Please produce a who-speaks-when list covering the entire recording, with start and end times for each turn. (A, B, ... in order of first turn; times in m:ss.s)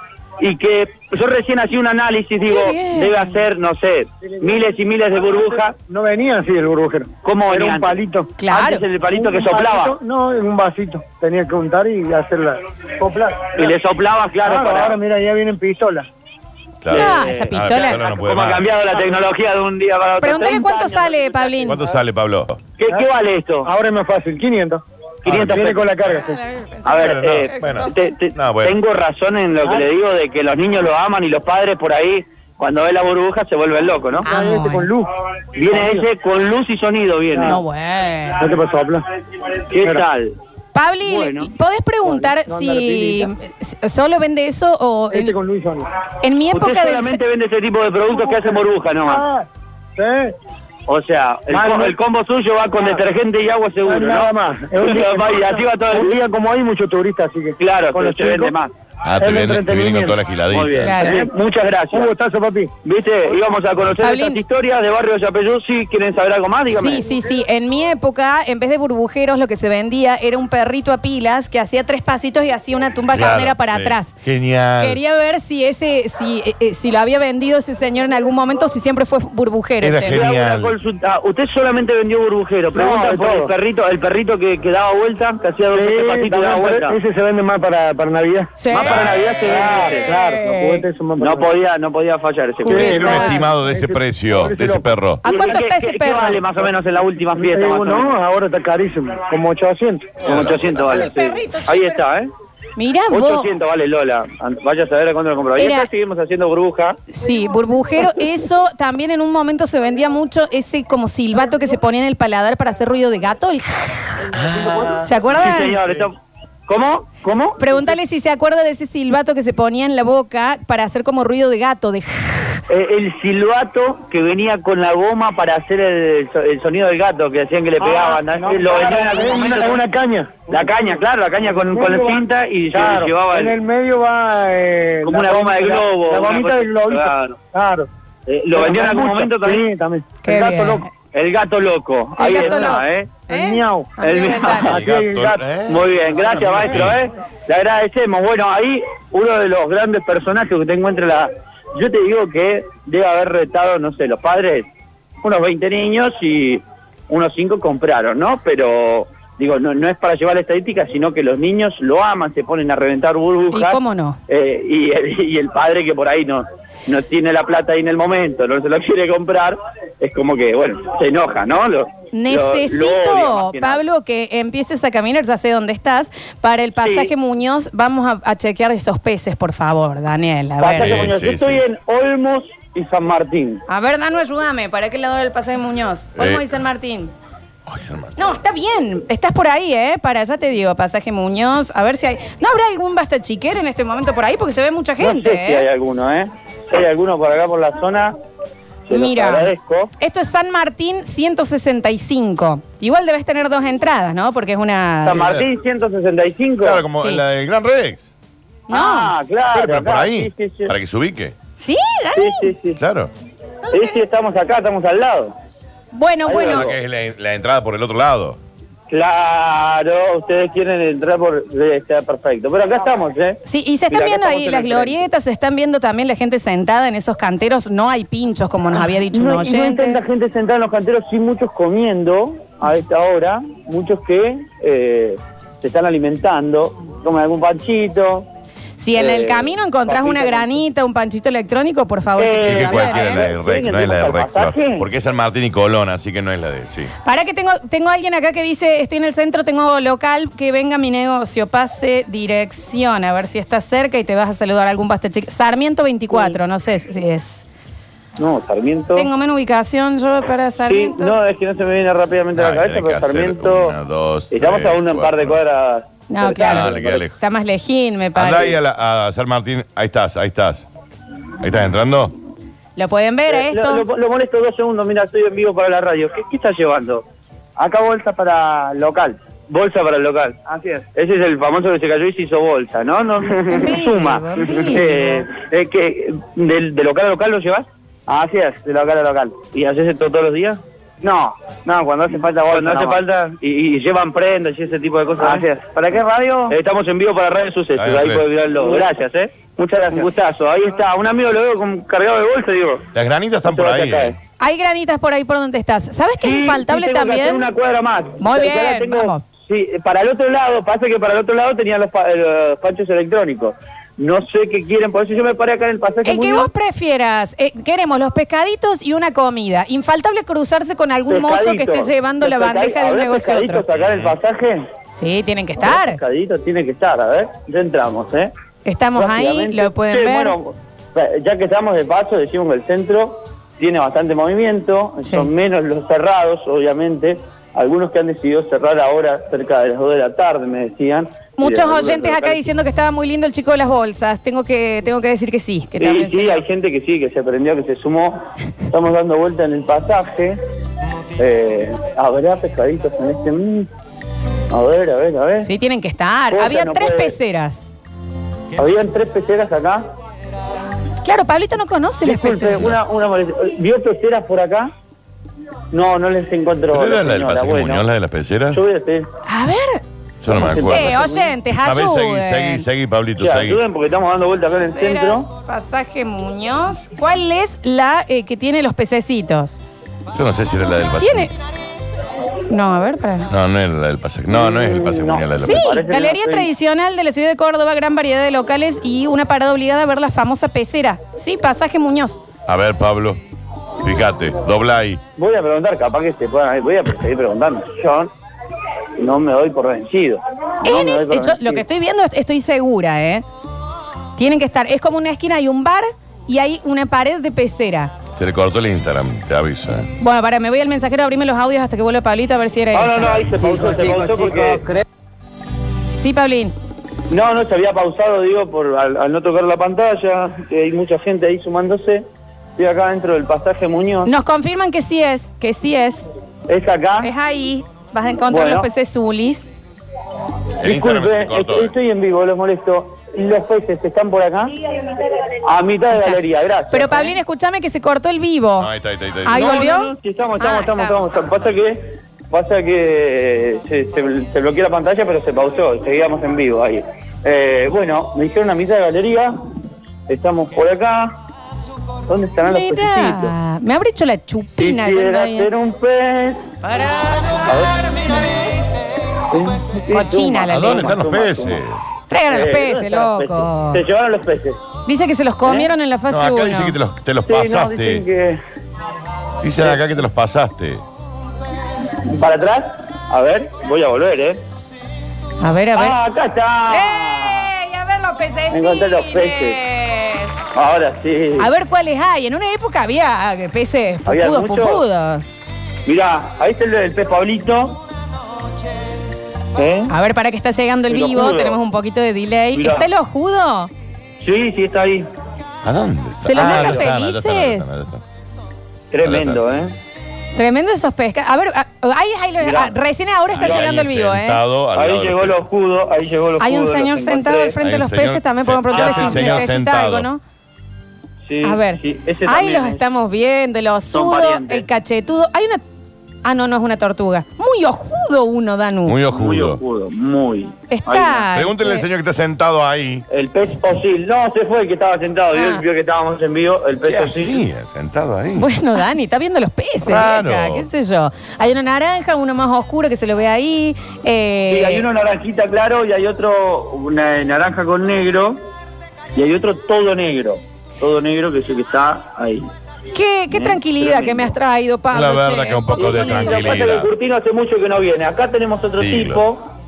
0:00.4-0:05.8 A
0:02.5-0:03.4 B
0:04.2-0:04.7 C
0:05.3-0:08.4 C
0:07.2-0:10.0 A
0:08.4-0:08.8 B
0:09.1-0:13.7 C
0:13.6-0:15.0 A
0:14.4-0:16.1 C
0:16.8-0:18.7 D
0:16.9-0:21.2 A
0:16.9-0:18.0 B
0:20.2-0:21.8 B
0:21.6-0:22.6 D
0:22.8-0:23.7 A
0:23.6-0:26.4 C
0:25.2-0:26.0 D
0:26.1-0:28.1 B
0:26.9-0:34.3 A
0:27.0-0:28.8 D
0:34.2-0:34.9 B
0:34.3-0:35.1 C
0:35.6-0:37.6 A
0:35.7-0:36.0 C
0:37.3-0:37.6 C
0:37.4-0:38.4 B
0:38.4-0:39.0 C
0:39.7-0:40.4 A
0:40.7-0:45.4 B
0:41.0-0:41.5 A
0:42.1-0:43.3 C
0:45.1-0:45.9 C
0:46.2-0:47.2 B
0:46.5-0:49.3 A
0:49.1-0:50.3 C
0:50.9-0:56.2 A
0:51.5-0:52.0 C
0:53.8-0:58.6 C
0:57.6-1:02.1 A
0:59.0-1:01.0 D
0:59.2-0:59.9 C
1:00.8-1:01.2 B
1:01.0-1:01.3 C
1:01.9-1:02.7 C
1:02.8-1:07.1 A
1:04.0-1:04.4 B
1:06.7-1:14.2 B
1:13.1-1:15.0 D
1:14.8-1:20.2 B
1:19.8-1:20.8 D
1:20.0-1:27.0 A
1:22.7-1:23.5 C
1:25.7-1:28.6 C
1:28.6-1:30.9 B
1:28.7-1:30.1 A
1:29.4-1:31.5 C
1:31.2-1:33.2 A
1:32.6-1:33.4 B
1:32.7-1:34.9 C
1:32.7-1:35.2 D
1:35.2-1:36.4 B
1:35.2-1:38.2 A
1:37.4-1:40.2 C
1:40.2-1:41.1 D
1:40.2-1:42.3 A
1:40.4-1:42.0 B
1:42.8-1:43.5 B
1:43.1-1:47.0 A
1:45.6-1:45.9 B
1:47.1-1:54.3 B
1:54.3-1:56.1 D
1:55.0-1:55.8 B
1:55.3-1:57.8 A
1:57.6-2:02.6 B
2:02.7-2:09.8 A
2:07.8-2:10.7 C
2:10.5-2:13.6 A
2:11.7-2:17.9 C
2:15.0-2:17.4 A
2:18.3-2:19.7 A
2:18.5-2:20.2 C
2:20.2-2:20.9 B
2:20.2-2:23.2 A
2:22.2-2:24.7 B
2:22.3-2:24.0 C
2:24.0-2:34.7 A
2:24.6-2:25.4 C
2:24.7-2:27.0 D
2:35.2-2:53.8 A
2:43.5-2:44.2 B
2:52.1-3:01.1 B
2:56.8-2:57.1 A
3:00.6-3:03.6 A
3:00.8-3:01.7 D
3:03.7-3:07.1 B
3:06.2-3:06.4 D
3:07.7-3:08.4 D
3:08.2-3:15.7 B
3:15.0-3:18.2 A
3:18.9-3:19.9 A
3:18.9-3:25.3 B
3:25.0-3:26.8 A
3:25.2-3:25.5 D
3:26.6-3:28.1 D
3:27.0-3:27.2 B
3:28.7-3:29.1 B
3:28.7-3:30.7 A
3:29.5-3:31.4 D
3:31.6-3:32.5 B
3:32.2-3:32.8 A
3:32.8-3:33.1 D
3:33.7-3:35.4 A
3:35.9-3:36.7 B
3:36.3-3:36.8 A
3:36.3-3:38.4 D
3:38.9-3:45.1 A
3:43.5-3:50.0 B
3:49.1-3:58.3 A
3:58.8-4:03.3 B
3:59.0-4:00.6 A
4:02.2-4:04.9 A
4:02.4-4:06.9 D
4:07.0-4:17.4 B
4:18.2-4:19.1 A
4:19.0-4:21.2 B
4:20.7-4:23.8 A
4:22.3-4:25.4 D
4:24.3-4:27.0 A
4:26.1-4:28.6 B
4:26.4-4:27.2 D
4:28.2-4:30.7 D
4:31.4-4:32.1 D
4:32.8-4:33.8 B
4:33.3-4:37.0 A
4:37.6-5:02.8 A
4:43.5-4:45.3 B
4:52.4-4:52.9 C
4:55.2-4:56.5 C
4:57.8-4:58.3 D
5:02.9-5:04.2 D
5:03.4-5:04.2 A
5:04.4-5:07.5 B
5:06.2-5:16.5 A
5:08.2-5:09.2 B
5:16.0-5:23.6 B
5:21.1-5:24.7 A
5:23.7-5:24.2 D
5:25.0-5:26.0 B
5:25.6-5:28.3 A
5:28.6-5:30.4 B
5:29.0-5:42.4 A
5:35.0-5:35.3 B
5:41.4-5:46.4 B
5:45.8-5:50.4 A
5:51.2-5:53.7 A
5:54.5-5:55.5 A
5:55.4-5:57.7 B
5:56.3-5:57.2 A
5:58.6-5:59.9 A
6:01.0-6:02.7 B
6:02.0-6:04.7 A
6:05.7-6:07.9 A
6:06.7-6:08.6 D
6:08.5-6:09.1 A
6:09.3-6:09.8 B
6:10.2-6:11.0 D
6:10.3-6:11.3 A
6:10.5-6:12.6 B
6:11.6-6:13.6 D
6:13.2-6:15.2 A
6:14.7-6:19.6 B
6:20.1-6:21.4 D
6:21.0-6:21.4 B
6:22.5-6:23.3 B
6:23.3-6:25.8 D
6:24.3-6:26.5 A
6:25.4-6:32.2 B
6:32.5-6:33.2 D
6:33.8-6:35.0 D
6:35.2-6:38.1 A
6:39.0-6:41.6 A
6:40.6-6:43.2 B
6:44.2-6:47.9 B
6:48.2-6:49.9 D
6:50.0-6:53.2 B
6:52.7-6:54.7 A
6:56.0-6:56.6 B
6:57.1-7:02.1 A
7:02.6-7:04.1 A
7:04.1-7:06.1 B
7:06.5-7:07.1 A
7:07.0-7:09.5 B
7:08.3-7:08.7 A
7:10.6-7:11.8 D
7:10.6-7:14.6 A
7:15.4-7:17.1 A
7:15.9-7:18.7 B
7:18.6-7:19.6 D
7:19.3-7:21.0 B
7:19.3-7:29.4 A
7:30.1-7:31.2 A
7:32.1-7:33.3 A
7:32.5-7:35.5 B
7:34.6-7:36.5 A
7:36.6-7:37.5 B
7:37.4-7:37.9 A
7:39.3-7:41.6 A
7:39.9-7:41.0 B
7:40.5-7:41.8 D
7:42.1-7:43.8 B
7:42.3-7:44.6 A
7:44.9-7:46.8 B
7:45.4-7:45.7 A
7:46.1-7:48.1 D
7:47.3-7:48.4 A
7:49.4-7:50.8 D
7:52.0-7:54.4 A
7:55.4-7:56.0 B
7:55.8-7:57.5 A
7:56.7-8:00.3 B
7:58.5-7:59.6 A
8:00.5-8:01.5 A
8:01.4-8:05.4 B
8:04.1-8:04.8 A
8:05.8-8:07.8 A
8:09.6-8:09.9 A
8:09.9-8:13.7 B
8:10.9-8:11.6 A
8:12.6-8:12.9 A
8:14.2-8:15.1 A
8:15.6-8:18.0 D
8:16.2-8:17.7 B
8:16.4-8:16.8 A
8:18.9-8:19.7 A
8:19.0-8:19.4 D
8:20.4-8:24.4 B
8:22.4-8:22.8 A
8:23.3-8:25.5 D
8:24.8-8:27.6 A
8:26.4-8:30.2 B
8:27.6-8:30.1 D
8:28.7-8:29.5 A
8:31.2-8:32.8 A
8:31.4-8:35.6 B
8:33.9-8:34.7 A
8:36.2-8:39.0 B
8:38.8-8:39.6 D
8:39.1-8:41.3 A
8:40.7-8:41.8 B
8:41.3-8:43.0 D
8:43.1-8:47.4 A
8:45.3-8:45.6 B
8:46.8-8:48.5 D
8:48.4-8:54.9 B
8:49.9-8:50.7 D
8:54.5-8:58.4 A
8:59.2-9:02.5 A
9:02.9-9:06.6 B
9:03.3-9:04.3 A
9:04.9-9:06.9 D
9:05.8-9:09.5 A
9:08.8-9:09.3 D